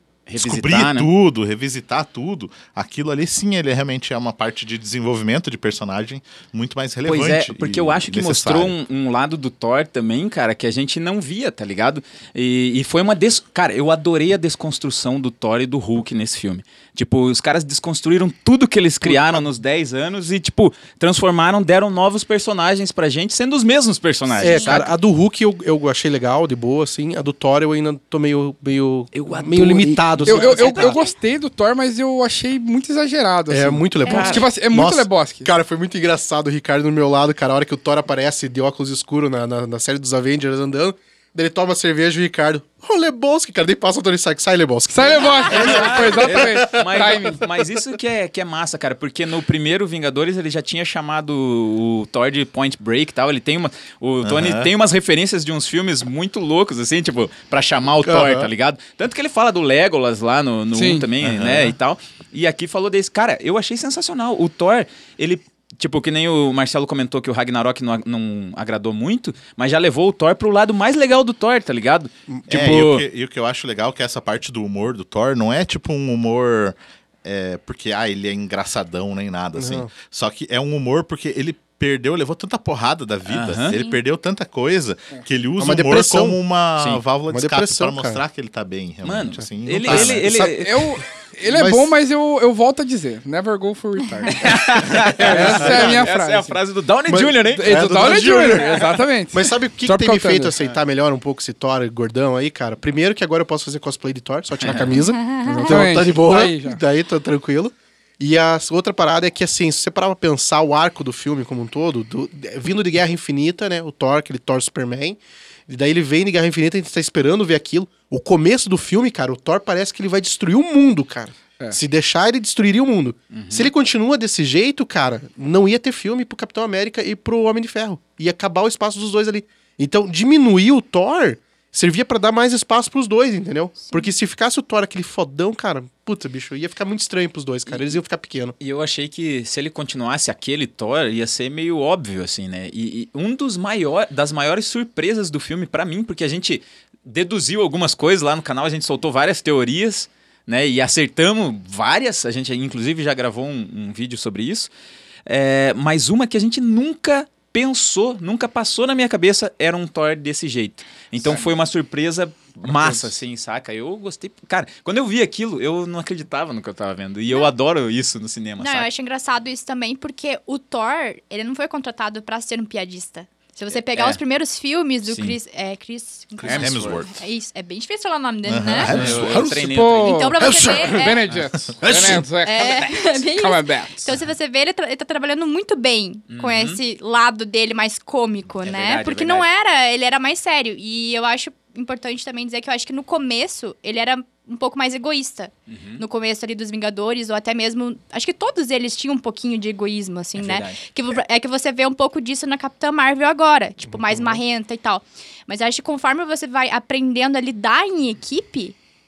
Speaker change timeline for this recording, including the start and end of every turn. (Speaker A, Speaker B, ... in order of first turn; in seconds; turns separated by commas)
Speaker A: 0.3-1.1, Speaker B: 0.3-8.8, Speaker A: 7.0-24.9, Speaker C: 19.0-19.4, Speaker D: 24.4-24.9, Speaker C: 24.4-31.0, Speaker A: 29.1-31.0, Speaker E: 30.2-35.5, Speaker C: 33.5-47.2, Speaker D: 34.0-34.4, Speaker A: 34.0-34.4, Speaker E: 44.9-47.4, Speaker A: 45.5-73.0, Speaker B: 54.2-54.7, Speaker C: 58.0-58.5, Speaker E: 60.7-61.0, Speaker B: 61.2-61.7, Speaker B: 72.5-90.5, Speaker C: 79.6-79.9, Speaker A: 83.3-83.8, Speaker D: 83.7-84.0, Speaker C: 85.6-86.4, Speaker C: 87.3-88.2, Speaker A: 89.0-90.9, Speaker C: 89.8-90.5, Speaker E: 90.6-96.6, Speaker C: 91.5-91.9, Speaker A: 94.3-98.7, Speaker C: 95.2-96.1, Speaker C: 97.1-138.5, Speaker E: 97.5-100.5, Speaker A: 104.6-105.0, Speaker D: 105.2-105.6, Speaker E: 105.6-106.8, Speaker A: 123.3-123.7, Speaker D: 133.8-134.1, Speaker A: 137.7-137.9, Speaker A: 138.6-154.7, Speaker A: 155.2-168.9, Speaker D: 168.6-179.0, Speaker A: 173.9-174.2, Speaker A: 175.1-175.4, Speaker B: 176.4-177.1, Speaker A: 176.4-177.1, Speaker B: 178.4-179.7, Speaker A: 178.8-180.2, Speaker E: 179.1-184.1, Speaker D: 180.0-181.2, Speaker C: 180.4-180.9, Speaker B: 181.7-182.2, Speaker D: 182.3-208.8, Speaker A: 186.3-186.8, Speaker A: 188.6-189.4, Speaker A: 195.7-196.0, Speaker A: 200.3-200.8, Speaker C: 203.9-204.4